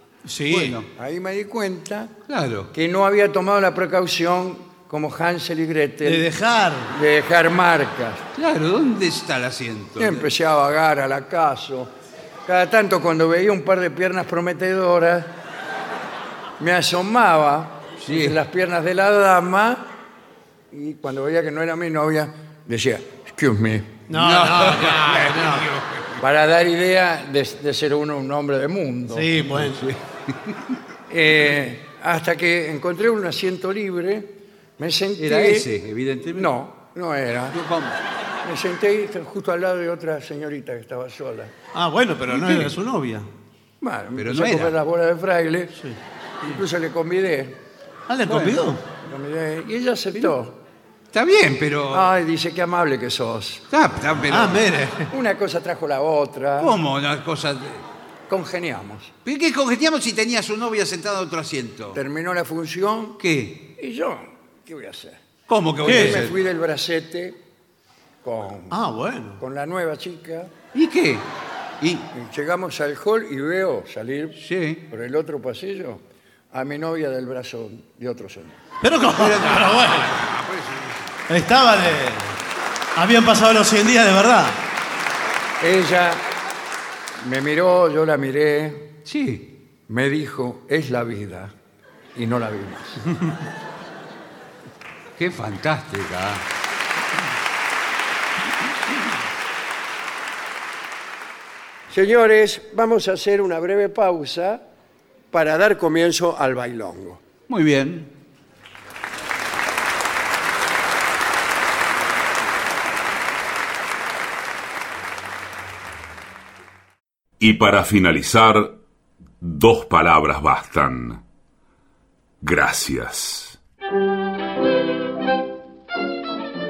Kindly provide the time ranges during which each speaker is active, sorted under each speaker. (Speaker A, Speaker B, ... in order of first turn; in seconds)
Speaker A: 0.2-0.8, 6.0-6.9, 24.1-25.7, 29.1-29.9, 41.7-43.3, 48.1-48.8, 54.3-55.1, 65.8-66.3, 68.7-69.4, 78.8-80.2, 81.3-82.3, 82.9-84.6
Speaker B: 0.5-0.9, 2.3-2.7, 8.3-10.3, 18.0-18.4, 24.1-26.2, 29.5-30.5, 35.2-36.5, 37.5-38.0, 42.3-42.7, 44.2-44.7, 48.3-48.6, 51.1-52.1, 53.7-54.7, 56.6-57.8, 59.2-62.0, 63.2-63.7, 65.5-66.3, 70.7-71.3, 71.8-72.1, 74.4-74.8, 79.1-81.2, 89.0-89.5, 95.2-96.4, 107.5-108.1
Speaker C: 0.9-2.1, 2.7-6.3, 6.9-8.2, 10.0-11.9, 12.4-15.3, 16.6-19.9, 20.7-24.0, 26.2-29.3, 31.1-35.7, 36.3-37.6, 38.4-41.5, 43.8-45.8, 46.4-47.6, 49.0-50.6, 51.9-53.6, 55.1-56.7, 58.3-59.1, 61.9-63.2, 63.7-65.2, 65.8-67.4, 68.2-68.8, 69.4-70.5, 72.1-78.6, 85.6-86.3, 87.2-88.9, 89.9-91.5, 92.1-93.0, 101.9-104.6, 105.3-107.2
Speaker D: 117.4-118.8, 119.4-121.2, 122.4-123.6